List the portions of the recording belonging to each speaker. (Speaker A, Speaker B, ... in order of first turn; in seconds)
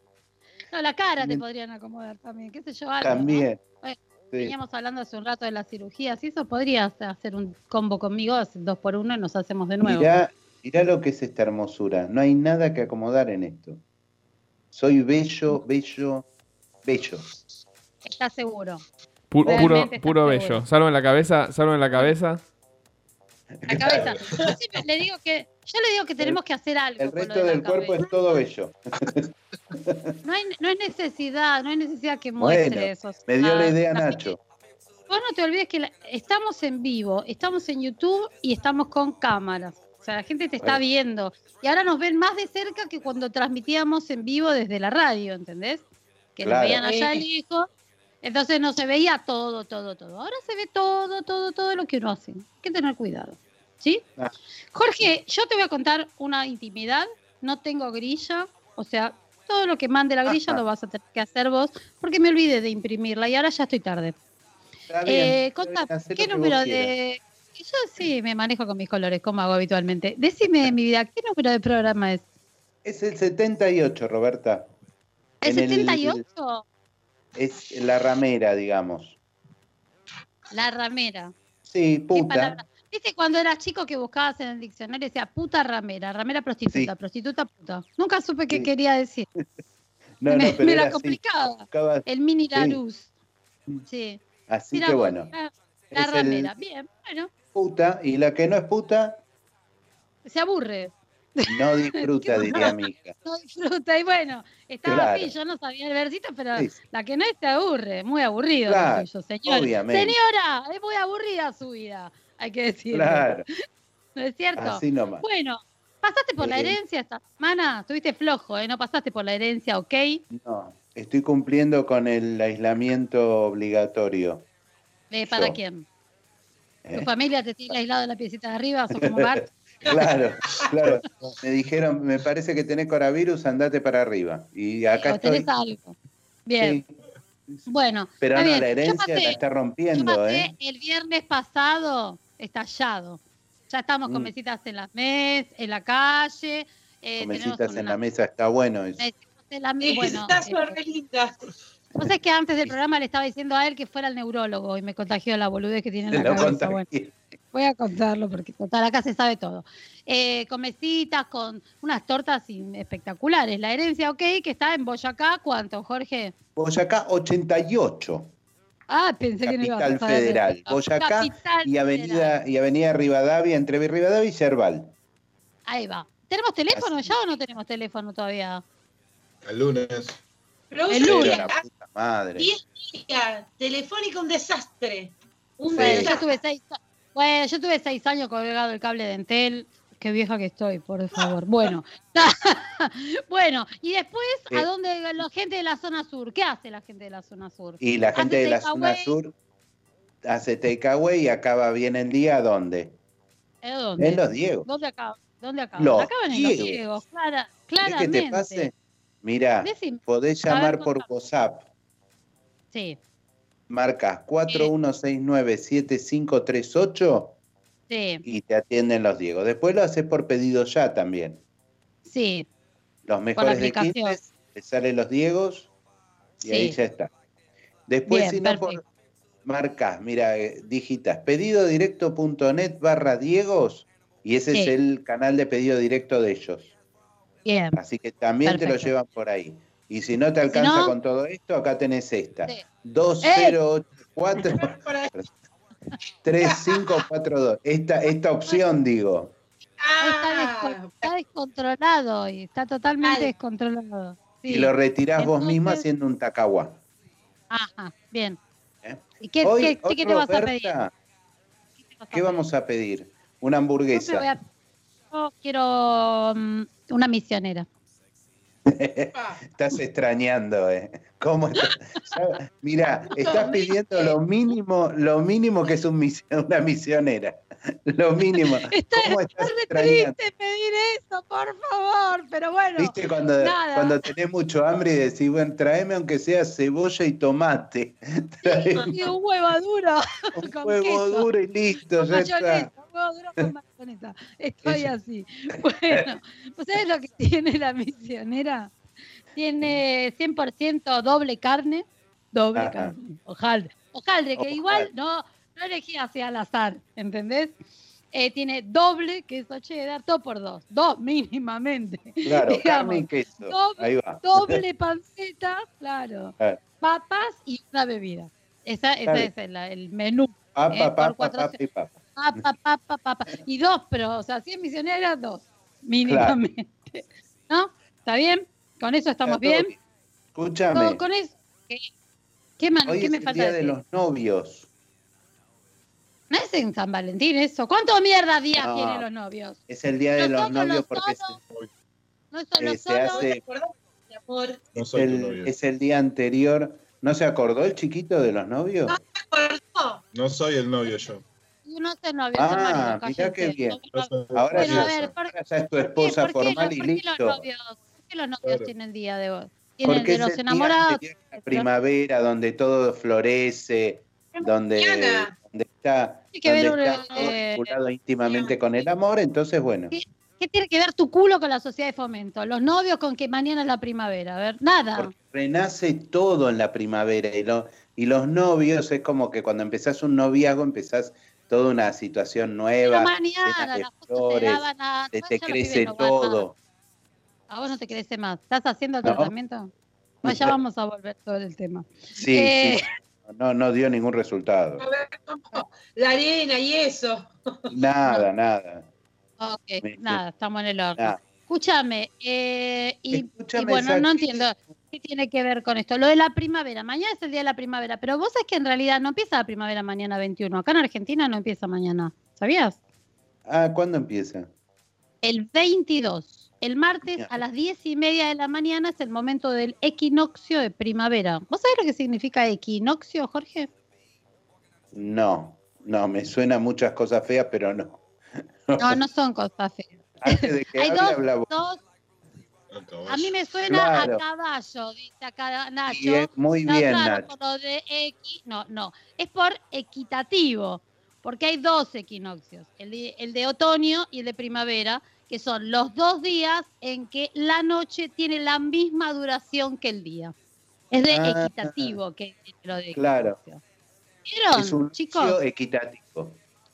Speaker A: 0.7-10.1, 18.1-18.8, 19.4-20.6, 23.7-28.1, 30.2-34.4, 35.1-45.8, 46.4-47.7, 48.2-54.0, 54.7-64.2, 65.1-72.2, 75.4-76.7, 80.5-81.3, 82.1-89.3, 90.3-93.1, 93.9-94.2, 94.7-97.3, 100.2-113.3, 114.2-120.2, 125.1-125.8, 126.9-129.5, 135.0-136.8, 137.7-139.4, 139.9-148.0, 149.0-150.8, 152.0-156.9, 157.5-166.3, 168.9-172.3, 175.7-178.6, 180.9-181.5, 185.7-199.2, 203.6-208.7, 209.6-211.1, 212.7-213.0, 217.9-218.2, 222.1-222.5, 223.4-224.2, 226.4-226.8, 228.1-228.8, 237.4-237.8, 238.4-238.9, 240.5-241.0, 243.2-243.6, 250.0-255.8, 257.5-258.4, 259.2-260.7, 261.9-262.4, 263.9-264.4, 265.1-267.7, 273.3-273.7, 278.7-284.0, 288.4-291.3, 291.9-298.7, 299.4-307.5, 308.1-321.6, 322.2-329.7, 330.7-331.9, 332.6-333.8, 336.3-339.6, 340.2-341.4, 342.3-343.3, 351.7-355.3, 356.0-361.7, 366.3-367.7, 369.9-375.1, 382.9-386.5, 387.5-389.7, 390.2-392.9, 399.4-412.8, 415.2-423.7, 428.8-431.8, 433.1-450.3, 450.9-453.6, 454.3-455.4
Speaker B: 3.0-3.6, 9.8-13.8, 14.7-16.3, 16.8-17.2, 19.4-19.9, 23.6-24.2, 27.0-30.0, 32.4-34.4, 46.4-47.2, 60.3-60.6, 64.9-66.9, 72.8-74.7, 75.4-76.2, 77.4-79.2, 81.6-82.6, 86.7-86.9, 90.2-92.8, 94.5-95.3, 95.9-96.6, 97.5-99.2, 101.5-103.2, 104.8-105.3, 108.7-110.2, 112.9-113.5, 114.6-115.3, 116.4-116.8, 120.3-124.5, 125.3-125.6, 126.8-127.1, 129.1-129.3, 129.8-135.5, 136.6-136.9, 138.2-140.5, 144.1-144.3, 147.2-149.1, 156.1-157.2, 166.6-168.3, 169.4-174.9, 176.7-177.2, 181.0-182.5, 185.7-186.2, 197.8-199.3, 200.2-203.0, 204.0-204.7, 205.8-206.8, 207.8-211.7, 213.7-217.4, 218.2-221.4, 223.1-225.7, 226.4-227.1, 227.9-228.8, 229.4-236.7, 237.7-245.3, 246.2-249.3, 254.5-256.8, 258.8-260.9, 262.1-264.3, 268.7-280.2, 282.8-289.1, 290.4-292.7, 294.6-294.9, 295.5-296.1, 302.6-302.9, 304.4-304.9, 312.2-314.6, 319.1-319.3, 320.6-322.4, 326.1-326.4, 329.2-329.8, 330.3-331.0, 332.9-334.7, 338.6-339.1, 339.7-341.4, 342.6-343.4, 344.9-349.0, 352.4-357.4, 359.8-369.9, 374.9-386.6, 389.0-389.3, 390.2-390.6, 392.2-394.9, 397.7-398.9, 399.8-400.2, 403.1-404.7, 413.5-414.5, 417.1-417.4, 424.9-428.0, 428.7-429.0, 430.2-431.5, 433.7-434.2, 435.9-437.3, 451.1-452.0, 452.9-453.4, 454.6-456.4
Speaker C: 19.3-22.4
Speaker D: 130.9-131.4, 179.4-180.2, 344.8-345.5, 350.1-351.2, 353.9-355.1, 358.4-358.7, 432.7-433.4
Speaker E: 149.8-151.4, 180.7-181.6, 182.4-186.3, 244.6-245.1, 246.4-247.0, 249.8-251.1, 253.0-253.3, 269.1-269.4, 273.2-273.5, 343.1-344.7, 348.9-350.0, 364.3-365.3, 366.9-367.3, 368.2-368.8, 394.8-397.3